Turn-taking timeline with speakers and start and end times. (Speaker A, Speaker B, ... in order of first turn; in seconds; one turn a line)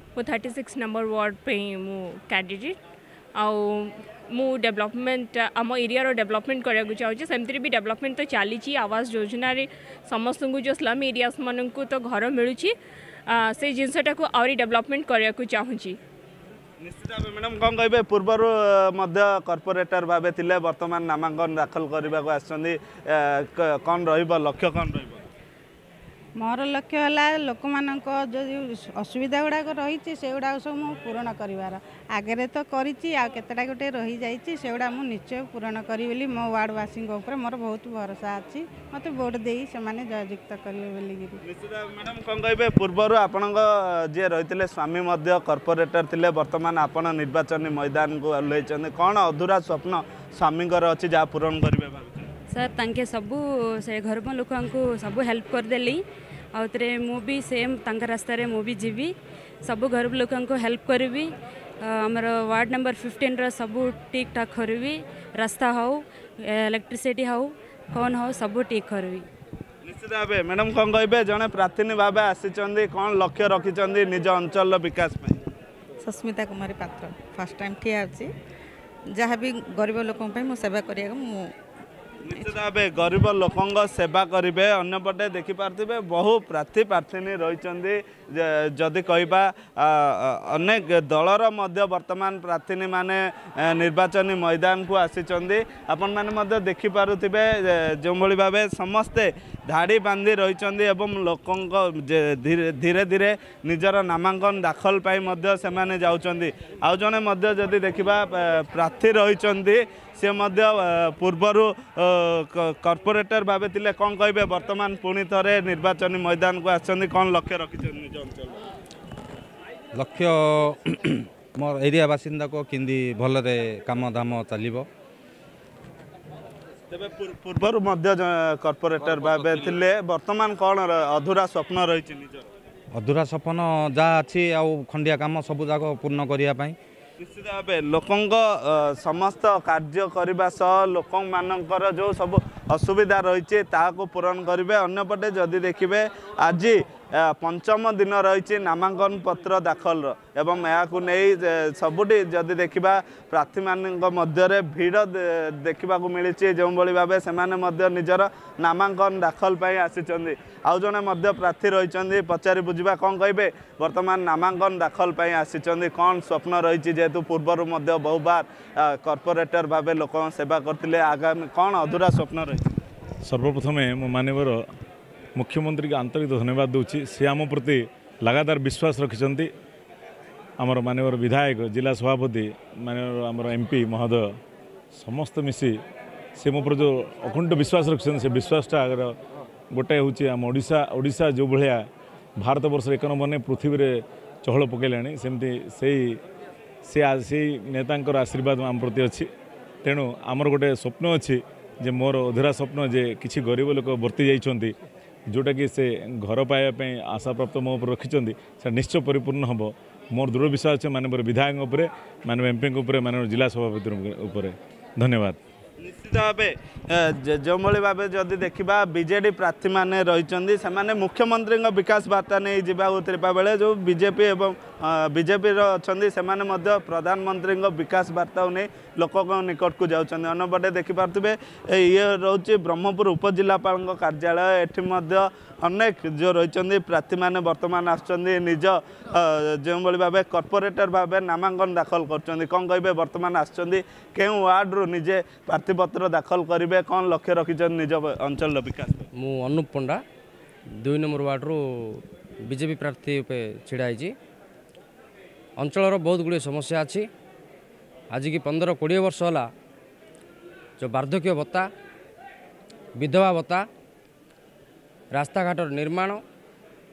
Speaker A: 0.2-2.8
Speaker A: 3.4-12.8
Speaker A: 13.3-16.0
Speaker B: 16.8-25.2
Speaker C: 26.4-41.4
Speaker B: 41.5-52.3
Speaker D: 52.5-69.3
Speaker B: 69.8-75.4
Speaker E: 76.0-78.3
Speaker E: 79.1-81.5
Speaker B: 82.2-118.6
Speaker F: 119.9-124.9
Speaker B: 126.9-132.5
Speaker F: 132.9-136.8
Speaker B: 137.2-172.6
Speaker G: 173.2-174.6
Speaker G: 175.4-179.5
Speaker G: 180.6-184.3
Speaker G: 184.9-185.8
Speaker G: 186.4-189.1
Speaker G: 189.7-191.8
Speaker G: 192.4-193.9
Speaker G: 194.4-196.2
Speaker G: 196.8-199.3
Speaker G: 199.8-204.7
Speaker G: 205.3-215.4
Speaker B: 215.8-249.1
Speaker H: 249.1-250.0
Speaker H: 250.8-254.2
Speaker H: 255.6-257.1
Speaker H: 258.1-259.5
Speaker H: 260.8-261.7
Speaker H: 263.0-263.7
Speaker H: 265.1-266.2